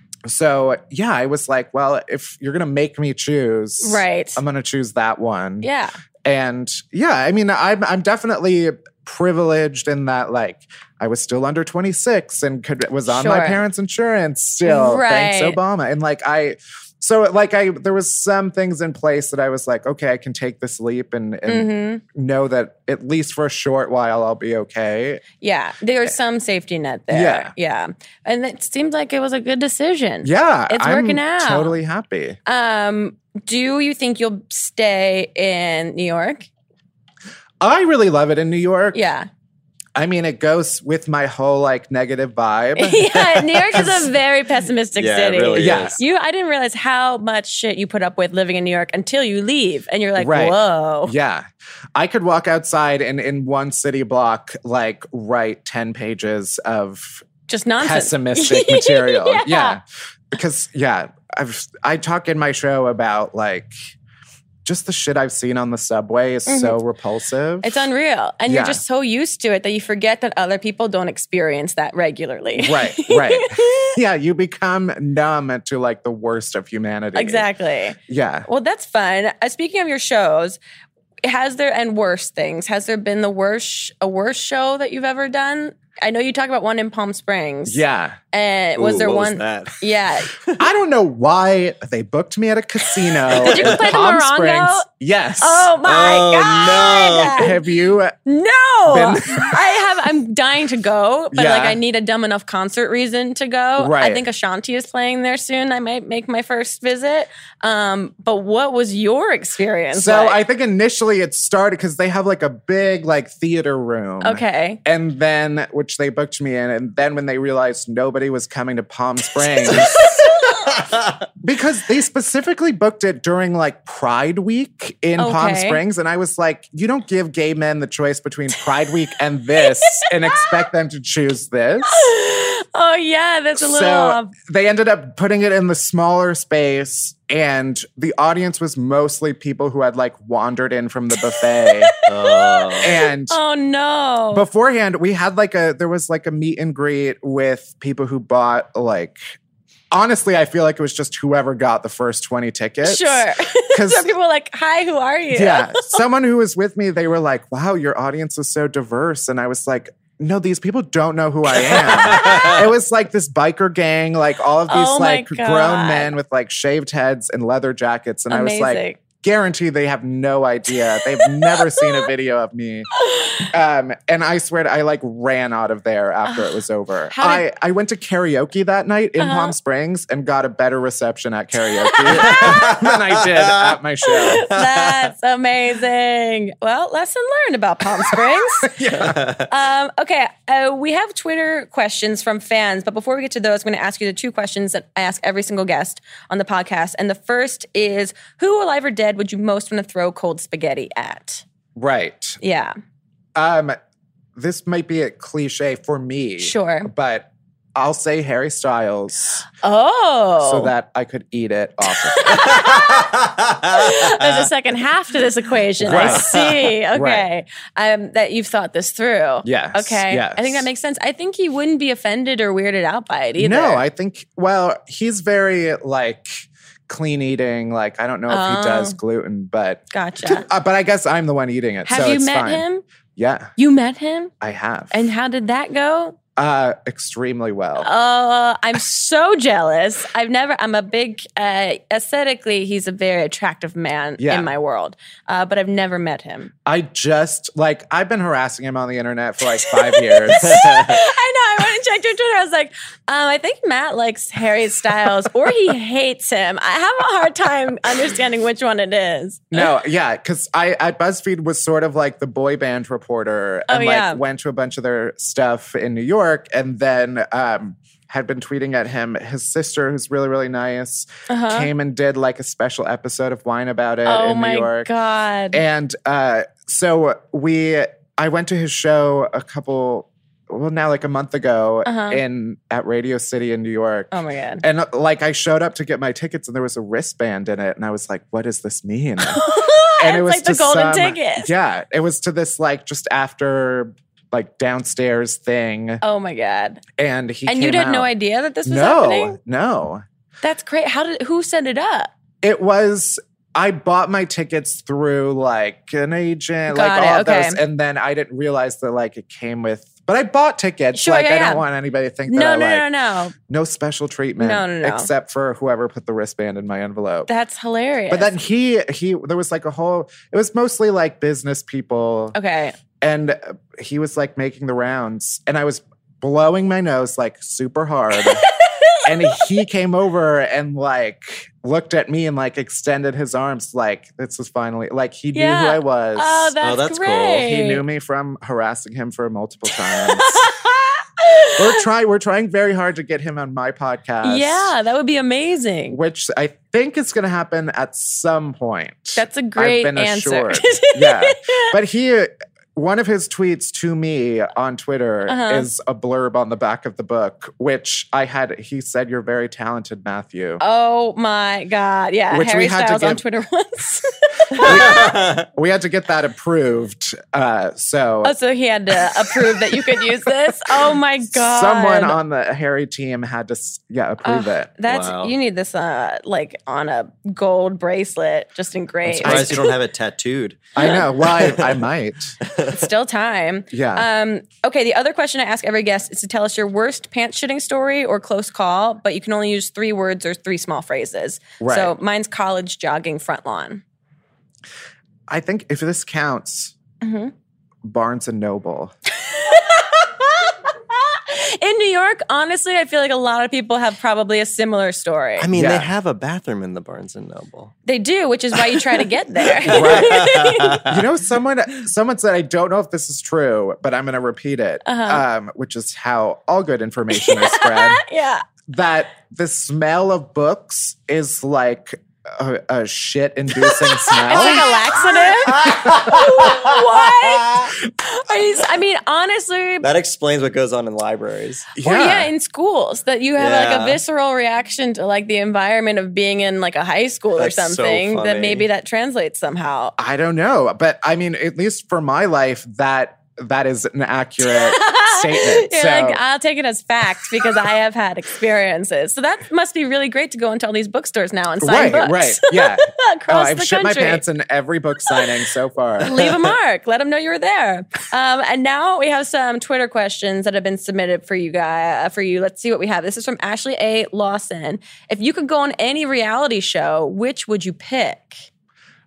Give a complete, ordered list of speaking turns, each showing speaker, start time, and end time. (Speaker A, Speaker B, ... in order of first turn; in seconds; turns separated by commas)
Speaker A: 0.2-5.7, Speaker B: 3.8-4.4, Speaker B: 5.6-5.9, Speaker A: 6.2-25.2, Speaker B: 13.1-13.6, Speaker B: 14.6-15.6, Speaker B: 21.5-22.0, Speaker B: 25.4-31.8, Speaker A: 27.1-27.5, Speaker A: 30.2-32.4, Speaker B: 32.5-36.5, Speaker A: 37.6-39.0, Speaker B: 38.9-39.3, Speaker A: 40.0-44.1, Speaker B: 42.8-51.1, Speaker C: 45.0-46.0, Speaker A: 45.5-46.0, Speaker A: 50.2-57.2, Speaker B: 57.5-59.8, Speaker A: 57.8-63.7, Speaker A: 64.7-67.8, Speaker B: 66.5-66.8, Speaker B: 67.6-74.0, Speaker A: 68.5-68.8, Speaker A: 72.6-77.5, Speaker B: 77.2-80.6, Speaker A: 78.1-78.5, Speaker B: 81.2-87.8, Speaker A: 87.7-88.2, Speaker B: 88.3-90.4, Speaker C: 88.8-89.8, Speaker A: 90.6-95.7, Speaker B: 93.3-94.9, Speaker C: 93.5-93.8, Speaker B: 95.4-97.6, Speaker C: 95.8-97.5, Speaker A: 97.2-98.2, Speaker B: 98.2-110.4, Speaker A: 98.9-99.6, Speaker A: 101.3-101.8, Speaker A: 103.8-104.2, Speaker A: 109.9-120.9, Speaker B: 114.2-114.8, Speaker B: 119.7-120.7, Speaker A: 121.4-132.1, Speaker B: 125.2-125.8, Speaker B: 129.6-130.5, Speaker B: 131.9-134.3, Speaker A: 133.6-141.9, Speaker B: 141.3-144.5, Speaker C: 142.1-143.0, Speaker A: 142.8-143.4, Speaker A: 144.3-149.3, Speaker A: 149.9-154.1, Speaker B: 152.8-156.0, Speaker A: 155.3-184.5, Speaker B: 161.8-162.6, Speaker C: 162.1-162.6, Speaker B: 164.7-166.2, Speaker B: 168.3-169.0, Speaker B: 171.0-172.1, Speaker B: 173.0-173.5, Speaker B: 176.3-176.6, Speaker B: 177.1-177.4, Speaker B: 179.2-179.5, Speaker B: 181.7-182.7, Speaker C: 182.2-183.8, Speaker B: 184.1-188.8, Speaker C: 184.3-184.9, Speaker A: 188.7-189.3, Speaker C: 188.9-189.4, Speaker B: 189.4-201.4, Speaker A: 201.8-202.4, Speaker B: 202.4-202.8, Speaker A: 203.4-203.8, Speaker A: 204.4-209.5, Speaker B: 206.4-206.9, Speaker B: 209.6-210.7, Speaker A: 210.4-212.6, Speaker B: 211.9-213.1, Speaker C: 212.5-214.5, Speaker B: 213.7-223.8, Speaker A: 215.8-216.3, Speaker C: 215.9-216.7, Speaker A: 216.9-217.2, Speaker A: 219.4-220.7, Speaker A: 223.4-232.6, Speaker B: 228.3-229.0, Speaker B: 229.9-230.5, Speaker B: 231.9-232.8, Speaker A: 233.2-233.5, Speaker B: 233.6-234.3, Speaker A: 234.4-235.0, Speaker B: 234.9-236.2, Speaker A: 236.4-237.9, Speaker B: 237.8-246.5, Speaker A: 244.2-244.5, Speaker A: 246.7-251.0, Speaker B: 249.5-259.7, Speaker A: 259.5-274.9, Speaker B: 263.7-264.2, Speaker B: 271.3-271.7, Speaker B: 274.1-275.6, Speaker A: 275.5-289.5, Speaker B: 281.9-282.2, Speaker B: 284.1-284.6, Speaker B: 289.2-291.5, Speaker A: 290.0-296.0, Speaker B: 296.0-296.8, Speaker A: 297.0-298.1, Speaker B: 297.5-299.4, Speaker A: 298.6-300.0, Speaker B: 300.4-302.1, Speaker A: 302.4-312.9, Speaker B: 306.7-307.6, Speaker B: 310.9-311.6, Speaker B: 312.3-313.3, Speaker A: 313.5-317.3, Speaker B: 314.4-315.1, Speaker B: 317.3-318.3, Speaker A: 318.1-322.4, Speaker B: 322.4-322.8, Speaker A: 323.0-328.5, Speaker B: 328.2-329.5, Speaker A: 329.0-336.5, Speaker B: 335.3-337.8, Speaker C: 336.6-337.5, Speaker A: 337.4-340.5, Speaker B: 339.7-341.8, Speaker A: 341.5-344.7, Speaker B: 344.2-346.0, Speaker A: 345.9-360.6, Speaker B: 349.2-351.7, Speaker B: 355.3-355.7, Speaker B: 360.6-365.1, Speaker A: 362.3-363.2, Speaker A: 364.6-368.4, Speaker C: 364.6-365.4, Speaker B: 368.2-372.2, Speaker A: 369.3-370.1, Speaker A: 370.8-374.8, Speaker B: 374.2-379.7, Speaker C: 374.9-375.4, Speaker A: 379.1-379.7, Speaker C: 379.2-381.8, Speaker A: 380.8-382.4, Speaker C: 382.4-382.8, Speaker B: 382.7-393.8, Speaker A: 383.7-384.1, Speaker A: 391.6-391.9, Speaker A: 395.3-396.8, Speaker B: 397.0-397.3, Speaker A: 397.8-398.9, Speaker B: 399.2-405.5, Speaker C: 405.4-407.7, Speaker A: 405.5-405.9, Speaker B: 407.9-410.8, Speaker C: 408.6-409.0, Speaker C: 409.6-411.0, Speaker A: 409.7-410.3, Speaker A: 410.9-418.0, Speaker B: 414.9-415.2, Speaker B: 417.1-418.4, Speaker A: 418.7-426.3, Speaker B: 424.1-429.9, Speaker C: 425.5-426.8, Speaker C: 429.8-431.7, Speaker A: 431.8-432.3, Speaker B: 431.8-439.9, Speaker C: 433.4-434.0, Speaker C: 437.4-438.7, Speaker A: 440.0-446.2, Speaker B: 444.4-454.2, Speaker A: 451.6-456.5, Speaker B: 456.0-468.4